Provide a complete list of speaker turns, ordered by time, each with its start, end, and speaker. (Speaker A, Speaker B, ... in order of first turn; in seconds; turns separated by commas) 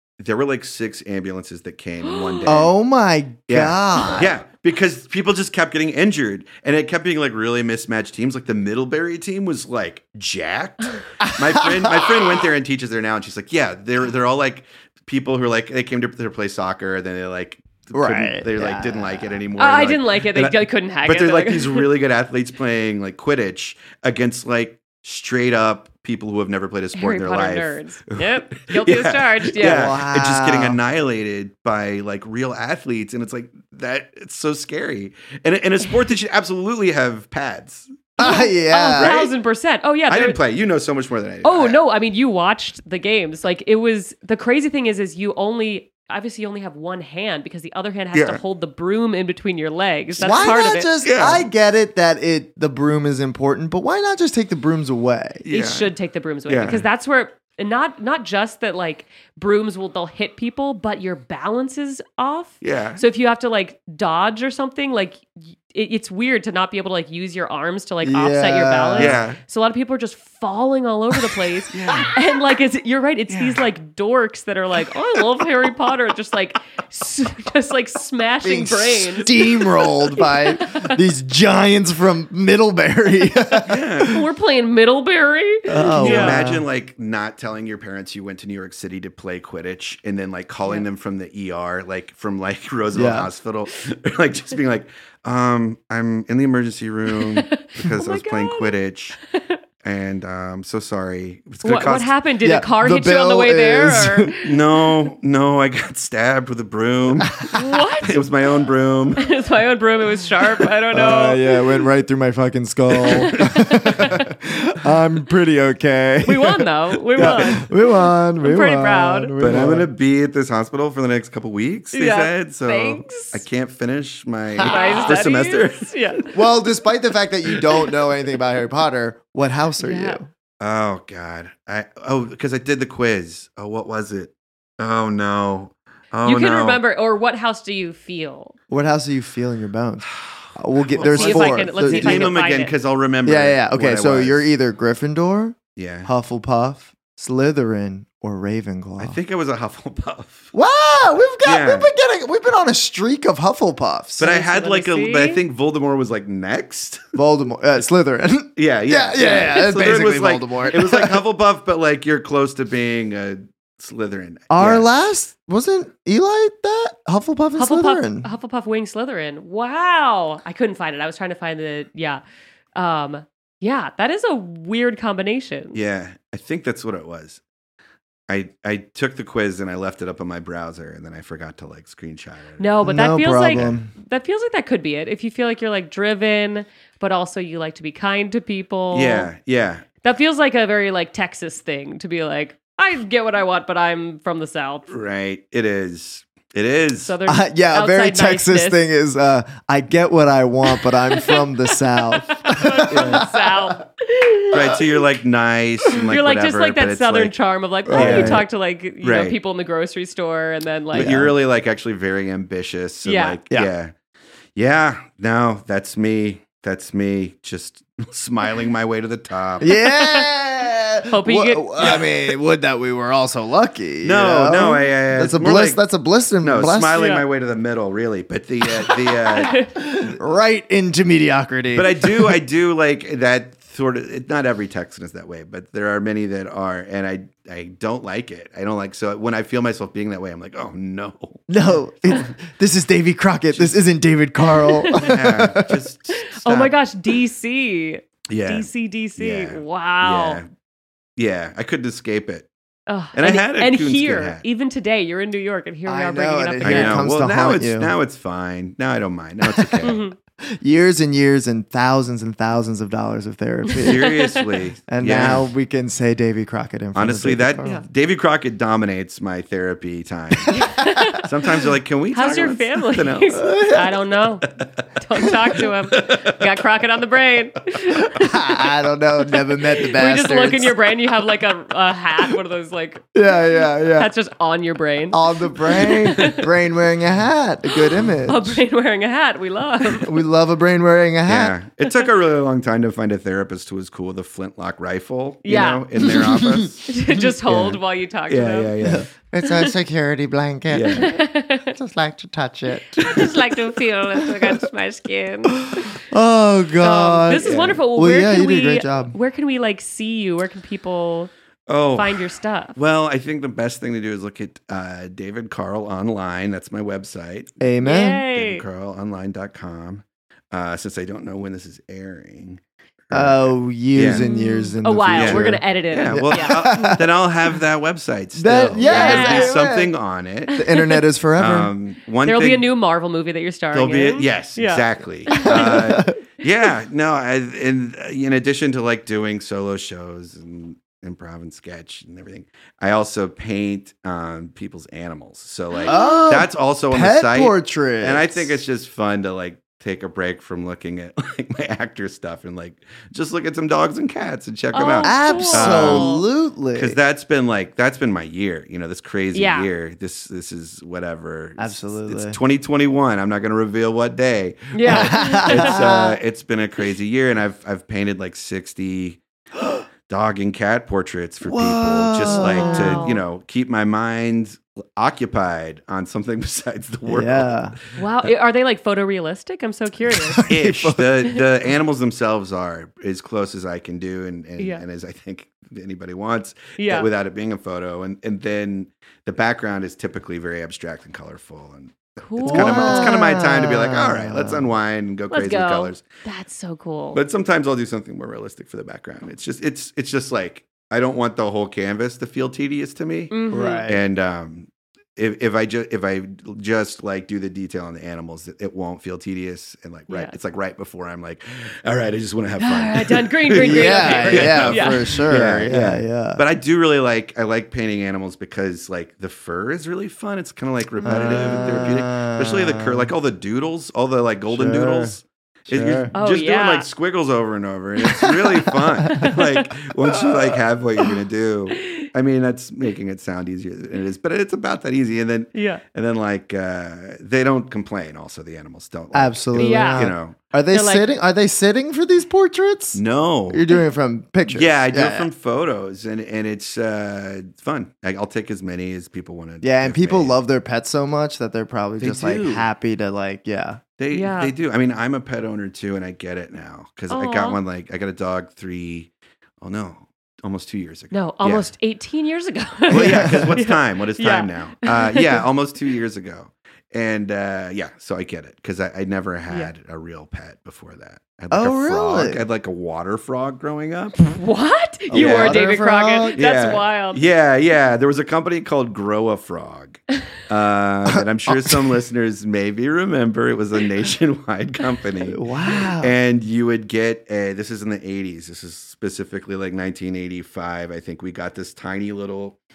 Speaker A: 0.2-2.7, Speaker B: 2.0-2.6, Speaker C: 2.5-4.3, Speaker A: 3.5-38.2, Speaker C: 11.2-12.4, Speaker C: 17.9-19.4, Speaker B: 19.6-21.9, Speaker B: 26.9-29.9, Speaker C: 29.6-30.8, Speaker C: 38.2-39.1, Speaker B: 38.2-40.4, Speaker A: 39.0-39.3, Speaker A: 40.1-41.8, Speaker B: 41.4-50.9, Speaker A: 48.1-48.4, Speaker C: 50.2-55.4, Speaker A: 51.0-51.5, Speaker A: 55.4-55.9, Speaker B: 55.5-81.0, Speaker A: 56.5-56.8, Speaker A: 62.6-63.0, Speaker C: 68.0-69.2, Speaker A: 69.0-69.4, Speaker A: 71.7-72.1, Speaker A: 73.3-73.6, Speaker C: 78.4-84.0, Speaker A: 83.6-84.2, Speaker B: 84.0-86.5, Speaker C: 85.7-86.7, Speaker A: 86.0-99.2, Speaker C: 92.9-93.3, Speaker B: 97.1-98.7, Speaker B: 99.3-99.6, Speaker A: 99.8-102.1, Speaker B: 101.6-104.8, Speaker C: 102.4-104.3, Speaker A: 104.4-109.3, Speaker B: 107.5-108.2, Speaker B: 109.2-111.6, Speaker C: 110.9-119.9, Speaker A: 112.9-113.4, Speaker B: 113.0-114.3, Speaker B: 116.2-117.7, Speaker A: 117.2-117.6, Speaker B: 118.4-119.3, Speaker A: 119.4-125.9, Speaker B: 121.9-123.4, Speaker C: 124.6-125.1, Speaker B: 124.7-126.3, Speaker C: 126.3-130.3, Speaker B: 129.8-130.2, Speaker A: 130.6-136.8, Speaker B: 136.2-138.5, Speaker C: 138.7-142.3, Speaker A: 140.2-144.5, Speaker B: 141.1-142.7, Speaker C: 143.2-149.2, Speaker A: 145.8-146.1, Speaker A: 149.0-150.5, Speaker C: 150.5-154.3, Speaker A: 151.4-151.9, Speaker A: 154.2-157.0, Speaker B: 154.2-155.4, Speaker C: 157.1-161.2, Speaker A: 158.6-164.9, Speaker C: 164.5-168.3, Speaker B: 167.6-172.2, Speaker B: 172.7-175.8, Speaker A: 175.7-177.4, Speaker A: 178.3-183.8, Speaker B: 182.6-189.3, Speaker C: 182.8-183.9, Speaker A: 188.9-189.8, Speaker B: 190.0-194.9, Speaker A: 194.9-197.1, Speaker B: 197.0-198.8, Speaker C: 197.2-203.6, Speaker B: 200.7-204.8, Speaker A: 202.9-203.2, Speaker A: 204.5-207.3, Speaker B: 206.1-211.3, Speaker C: 207.9-208.4, Speaker A: 207.9-208.5, Speaker A: 209.0-209.4, Speaker A: 210.9-213.9, Speaker C: 210.9-211.3, Speaker B: 213.0-213.4, Speaker A: 214.6-219.7, Speaker C: 219.6-227.0, Speaker B: 219.6-220.3, Speaker B: 221.1-222.0, Speaker A: 221.8-222.1, Speaker A: 224.0-225.8, Speaker A: 226.4-229.6, Speaker B: 226.9-227.2, Speaker B: 228.9-229.7, Speaker C: 229.9-232.4, Speaker A: 231.7-241.6, Speaker C: 241.5-245.8, Speaker A: 243.5-243.8, Speaker B: 244.7-245.2, Speaker A: 244.9-246.7, Speaker B: 246.4-250.4, Speaker A: 248.3-250.5, Speaker A: 251.2-252.5, Speaker B: 252.9-257.0, Speaker A: 253.1-254.4, Speaker C: 255.8-257.9, Speaker A: 256.6-260.0, Speaker C: 259.5-259.8, Speaker B: 259.8-260.1, Speaker C: 260.5-264.1, Speaker A: 263.8-265.5, Speaker B: 263.8-264.5, Speaker C: 264.9-267.8, Speaker A: 266.9-273.4, Speaker B: 270.5-271.3, Speaker B: 272.1-278.4, Speaker C: 273.3-273.9, Speaker A: 275.9-276.4, Speaker C: 278.0-280.8, Speaker B: 279.8-283.1, Speaker C: 283.1-284.1, Speaker B: 283.9-286.4, Speaker C: 285.1-288.6, Speaker B: 288.2-290.1, Speaker C: 290.0-291.6, Speaker A: 291.2-299.1, Speaker B: 295.4-295.9, Speaker C: 296.0-296.6, Speaker B: 296.9-298.7, Speaker C: 298.8-303.3, Speaker B: 299.4-299.7, Speaker A: 300.7-301.1, Speaker B: 300.9-301.7, Speaker B: 303.0-306.0, Speaker C: 304.2-304.5, Speaker C: 305.5-309.1, Speaker B: 306.8-311.3, Speaker A: 307.4-307.8, Speaker A: 311.7-317.6, Speaker B: 311.9-312.8, Speaker C: 317.6-318.2, Speaker B: 317.8-318.6, Speaker A: 318.3-324.2, Speaker C: 323.1-327.1, Speaker B: 324.1-327.0, Speaker A: 325.1-330.5, Speaker C: 328.3-329.9, Speaker B: 328.8-329.6, Speaker B: 330.5-331.0, Speaker C: 330.6-331.7, Speaker A: 331.4-332.6, Speaker B: 332.2-335.8, Speaker A: 333.7-356.1, Speaker C: 335.5-336.2, Speaker B: 345.7-346.3, Speaker C: 345.9-348.5, Speaker B: 354.7-356.2, Speaker C: 355.0-357.0, Speaker A: 356.7-369.2, Speaker B: 359.3-359.7, Speaker C: 361.6-362.4, Speaker B: 364.7-366.0, Speaker C: 364.8-366.2, Speaker A: 370.1-378.3, Speaker C: 371.4-373.0, Speaker B: 372.2-373.2, Speaker C: 377.1-377.8, Speaker B: 377.9-380.5, Speaker C: 380.1-381.1, Speaker A: 380.5-396.0, Speaker B: 386.8-387.1, Speaker B: 392.2-393.2, Speaker C: 392.4-394.6, Speaker B: 395.3-397.2, Speaker A: 397.1-440.4, Speaker B: 403.3-403.9, Speaker C: 403.5-404.0, Speaker B: 410.1-410.3, Speaker B: 412.6-415.3, Speaker C: 413.6-416.4, Speaker B: 421.0-421.9, Speaker C: 421.0-423.1, Speaker C: 424.5-425.1, Speaker C: 425.7-426.1, Speaker B: 426.1-426.9, Speaker C: 428.2-429.3, Speaker B: 429.1-429.7, Speaker B: 431.7-432.1, Speaker B: 435.5-435.8, Speaker C: 439.1-445.3, Speaker B: 439.5-440.1, Speaker B: 440.7-441.1, Speaker A: 442.9-443.6, Speaker A: 444.5-450.4, Speaker C: 449.6-453.8, Speaker A: 452.0-452.6, Speaker A: 454.0-459.1, Speaker B: 454.1-454.5, Speaker B: 457.1-457.6, Speaker A: 459.6-461.7, Speaker B: 461.1-465.4, Speaker A: 462.9-474.2, Speaker C: 462.9-463.5, Speaker C: 471.5-472.4, Speaker B: 474.2-477.2, Speaker C: 475.1-476.4, Speaker A: 475.1-475.7, Speaker A: 476.4-492.6, Speaker C: 481.1-481.9, Speaker C: 485.3-486.1